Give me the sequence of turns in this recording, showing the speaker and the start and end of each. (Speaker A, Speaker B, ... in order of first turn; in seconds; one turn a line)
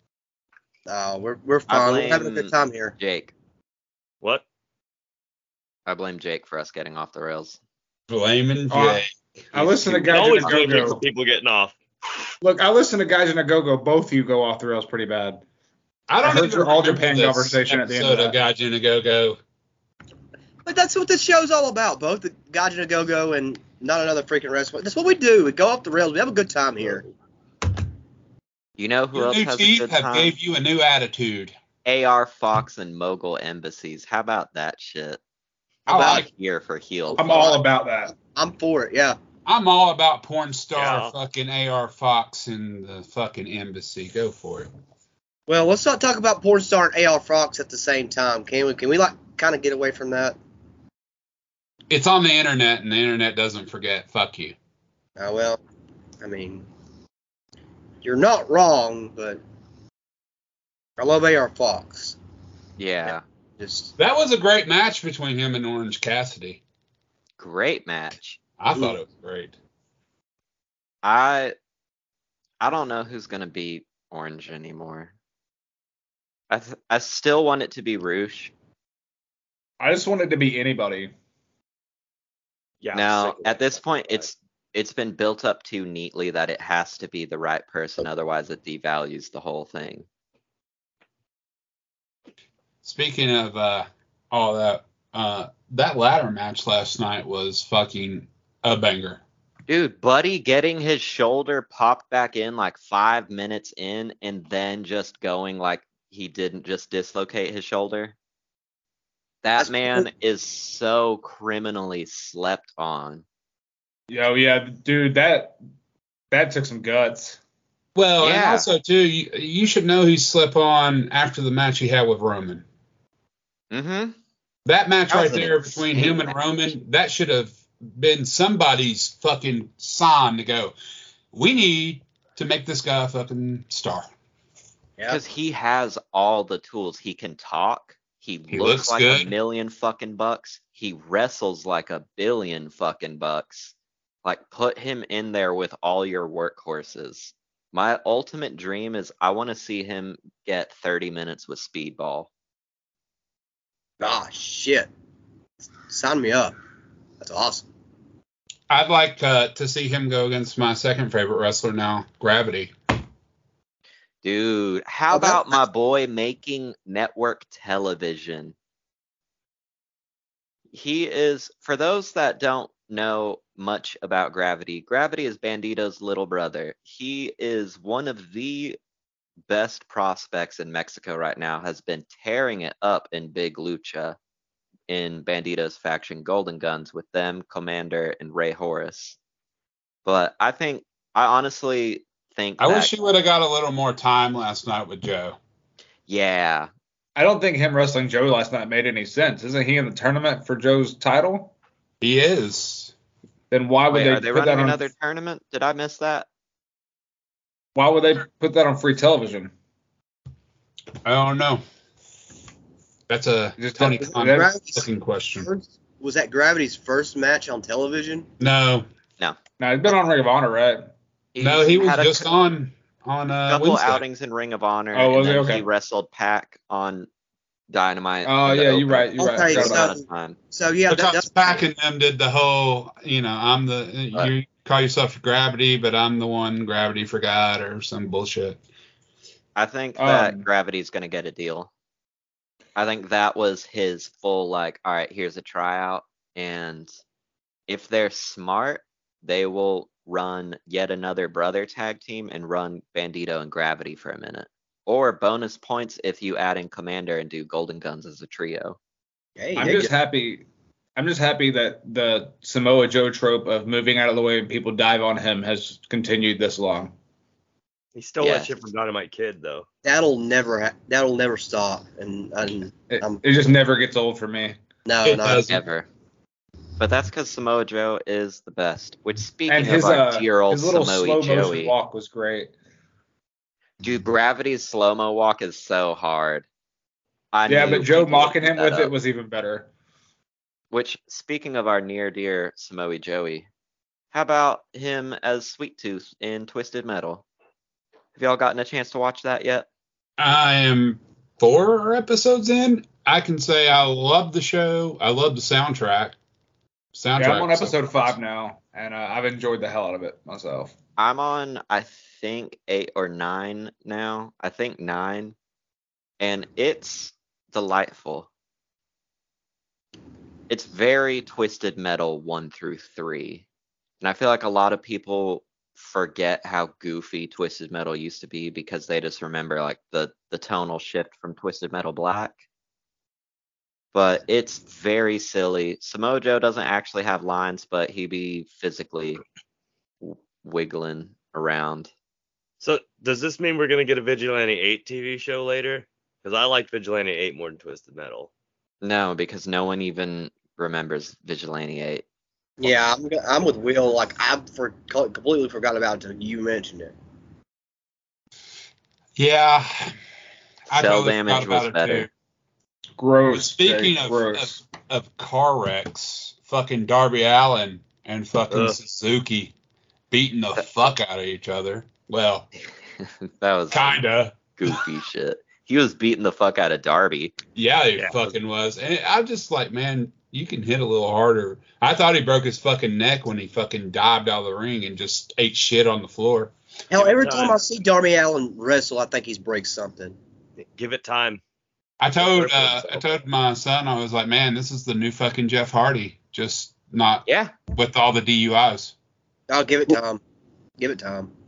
Speaker A: 0.9-3.0
Speaker B: 1.7-3.3
Speaker B: 5.9-7.6
Speaker C: 8.1-10.6
Speaker D: 8.7-11.0
Speaker E: 10.1-11.8
Speaker D: 12.4-15.4
Speaker C: 16.1-19.4
Speaker D: 16.2-18.4
Speaker A: 20.7-27.1
Speaker B: 28.8-30.4
Speaker C: 29.1-31.6
Speaker B: 31.8-35.2
Speaker B: 35.9-37.6
Speaker C: 35.9-36.3
Speaker A: 35.9-36.2
Speaker A: 37.2-37.6
Speaker D: 37.2-38.1
Speaker A: 38.2-39.2
Speaker C: 39.5-44.7
Speaker E: 40.8-41.1
Speaker A: 45.5-50.4
Speaker C: 51.9-54.6
Speaker A: 55.2-55.6
Speaker A: 56.2-56.7
Speaker A: 58.0-59.4
Speaker A: 61.0-62.2
Speaker B: 62.8-63.2
Speaker A: 63.6-63.9
Speaker C: 64.0-66.6
Speaker B: 67.4-68.4
Speaker C: 68.6-69.5
Speaker B: 71.0-71.5
Speaker B: 72.6-75.1
Speaker B: 76.5-78.5
Speaker D: 79.8-81.1
Speaker E: 82.8-84.2
Speaker B: 82.9-90.1
Speaker C: 92.8-99.2
Speaker B: 99.7-108.2
Speaker B: 109.4-113.2
Speaker A: 109.6-110.1
Speaker D: 114.1-115.6
Speaker D: 116.3-117.4
Speaker C: 118.0-122.7
Speaker B: 118.2-118.7
Speaker B: 123.7-124.2
Speaker C: 124.7-130.8
Speaker B: 125.1-126.4
Speaker C: 131.3-134.1
Speaker B: 135.1-152.3
Speaker C: 138.5-139.3
Speaker A: 154.0-154.9
Speaker A: 155.9-156.5
Speaker A: 157.2-157.7
Speaker C: 158.7-162.7
Speaker B: 164.2-168.6
Speaker A: 165.1-165.6
Speaker B: 170.7-178.8
Speaker B: 179.5-184.2
Speaker B: 184.9-189.2
Speaker B: 190.1-192.9
Speaker C: 192.6-195.4
Speaker B: 196.1-196.7
Speaker D: 197.2-201.5
Speaker C: 202.0-202.9
Speaker D: 203.5-204.8
Speaker B: 203.9-206.3
Speaker D: 207.8-209.5
Speaker C: 211.0-211.6
Speaker C: 213.1-215.5
Speaker D: 213.6-214.5
Speaker A: 214.1-218.3
Speaker C: 218.4-218.9
Speaker D: 219.6-220.9
Speaker B: 221.3-222.3
Speaker C: 221.4-224.0
Speaker B: 223.5-227.1
Speaker D: 224.9-225.7
Speaker B: 227.7-230.4
Speaker D: 228.2-229.9
Speaker A: 229.2-231.6
Speaker C: 230.9-238.6
Speaker B: 239.6-241.7
Speaker D: 240.0-240.4
Speaker B: 242.8-246.9
Speaker B: 247.7-258.8
Speaker A: 259.4-259.9
Speaker D: 259.6-260.4
Speaker D: 261.0-266.9
Speaker E: 267.9-269.7
Speaker B: 268.2-268.5
Speaker A: 269.9-273.2
Speaker D: 272.9-274.6
Speaker A: 274.9-275.5
Speaker C: 275.0-275.6
Speaker B: 275.3-275.9
Speaker B: 276.8-281.8
Speaker D: 279.5-282.5
Speaker B: 283.8-286.5
Speaker B: 287.3-288.9
Speaker D: 287.5-289.7
Speaker B: 290.7-293.5
Speaker B: 294.1-297.2
Speaker B: 298.2-299.7
Speaker C: 300.2-306.2
Speaker C: 306.9-308.1
Speaker D: 307.2-310.8
Speaker B: 311.0-315.4
Speaker B: 316.2-318.3
Speaker B: 320.5-323.5
Speaker B: 324.0-332.4
Speaker B: 333.9-339.2
Speaker B: 340.0-341.9
Speaker E: 342.6-348.3
Speaker B: 348.8-352.0
Speaker A: 352.6-356.9
Speaker C: 359.2-359.9
Speaker C: 360.7-362.1
Speaker B: 360.7-362.1
Speaker D: 363.0-364.6
Speaker C: 363.2-369.5
Speaker E: 368.5-368.8
Speaker C: 370.1-372.5
Speaker B: 373.0-374.0
Speaker C: 373.7-374.8
Speaker B: 374.5-377.4
Speaker C: 377.6-386.5
Speaker A: 386.9-390.2
Speaker E: 386.9-387.6
Speaker E: 390.6-391.4
Speaker C: 392.0-398.9
Speaker E: 392.2-393.0
Speaker B: 397.3-397.6
Speaker A: 399.5-400.2
Speaker A: 400.8-401.3